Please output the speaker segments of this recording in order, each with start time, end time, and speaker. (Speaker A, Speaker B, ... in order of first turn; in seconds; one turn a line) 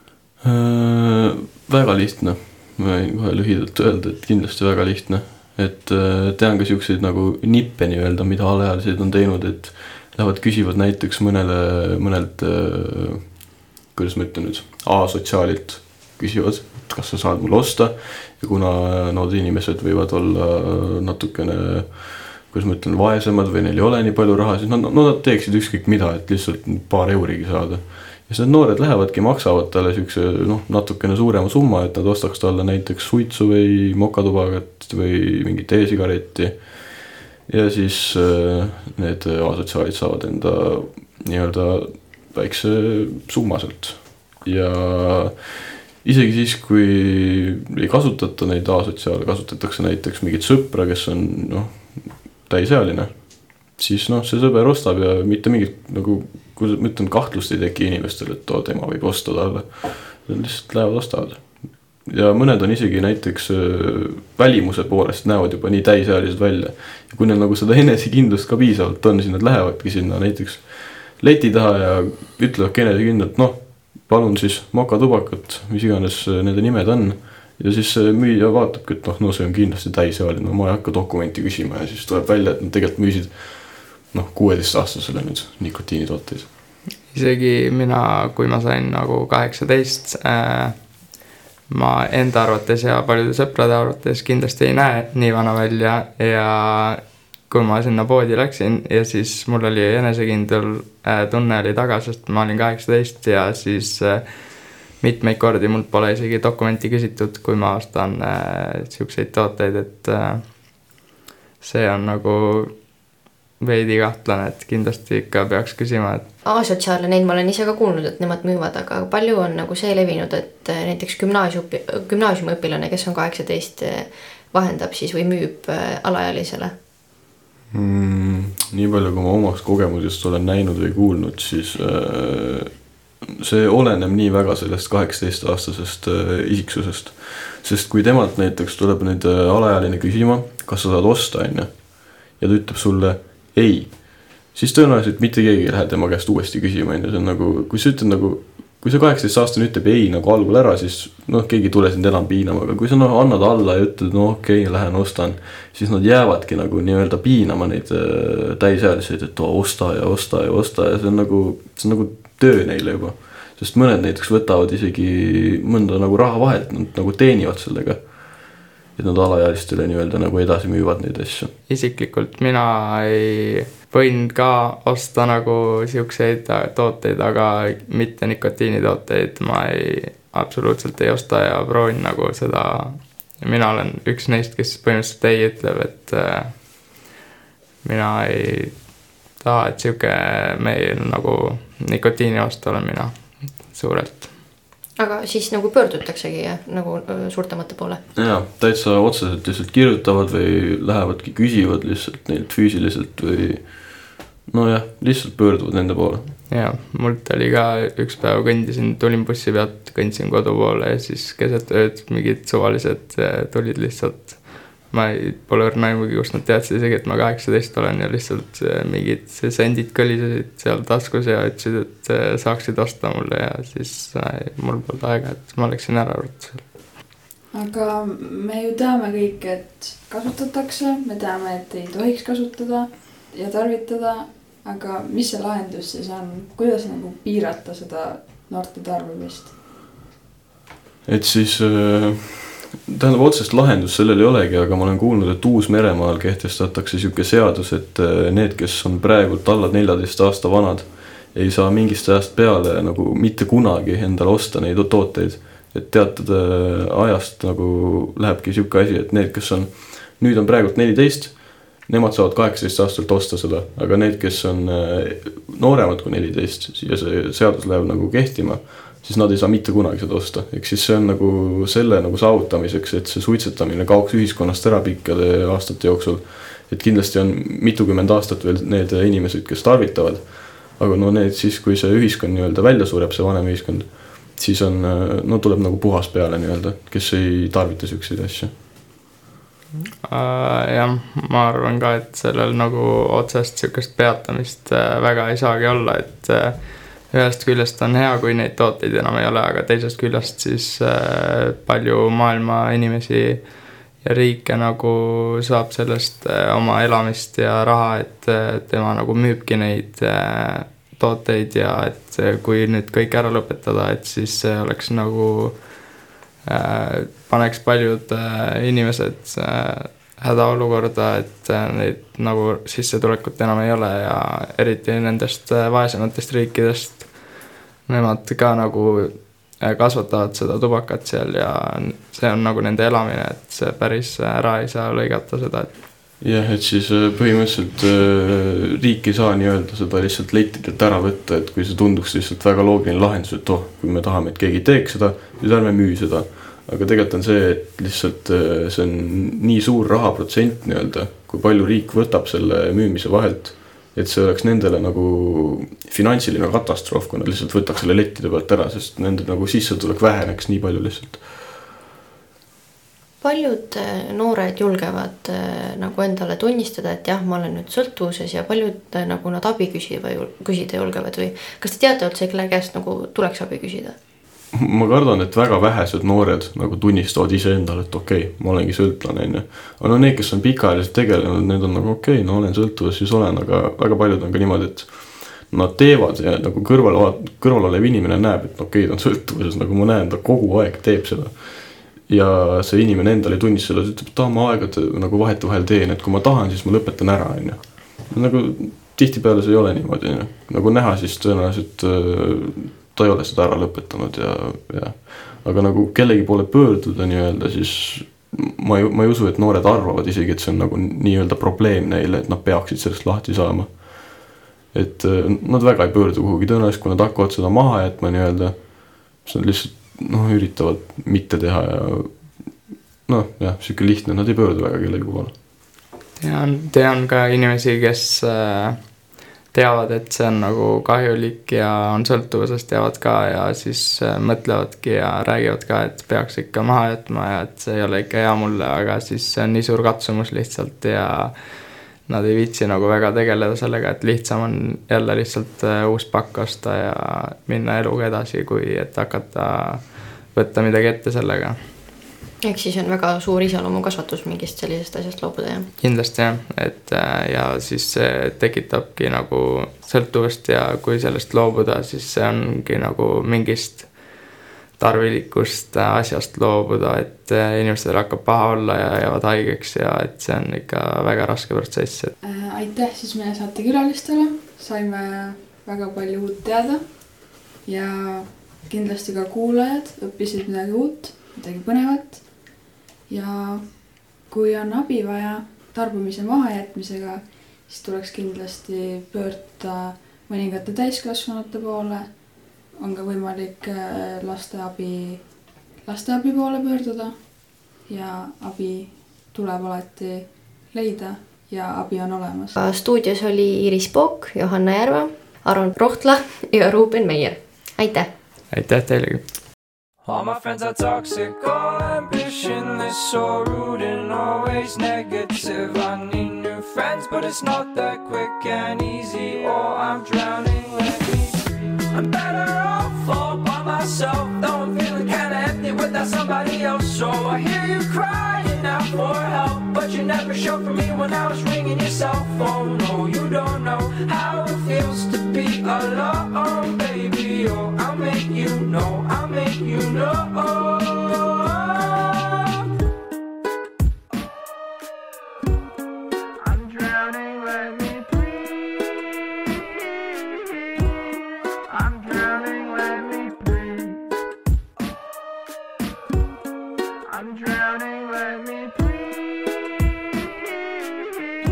Speaker A: 0.4-86.5
Speaker B: 87.1-91.1
Speaker B: 91.7-110.9
Speaker B: 111.6-112.8
Speaker B: 113.6-116.2
Speaker C: 116.5-126.7
Speaker A: 127.7-171.5
Speaker B: 171.7-186.9
Speaker B: 187.8-194.4
Speaker C: 195.0-198.0
Speaker A: 198.2-206.3
Speaker B: 206.5-226.8
Speaker D: 227.5-239.6
Speaker A: 241.0-288.5
Speaker B: 289.8-315.9
Speaker B: 316.5-335.7
Speaker A: 336.2-361.5
Speaker C: 363.2-373.9
Speaker A: 374.5-425.3
Speaker B: 426.2-441.3
Speaker B: 442.0-451.6
Speaker C: 452.4-455.7
Speaker B: 455.8-472.1
Speaker D: 472.2-502.6
Speaker C: 502.6-508.1
Speaker B: 508.5-509.2
Speaker E: 510.0-542.6
Speaker E: 546.5-548.1
Speaker E: 551.7-553.6
Speaker E: 557.1-558.8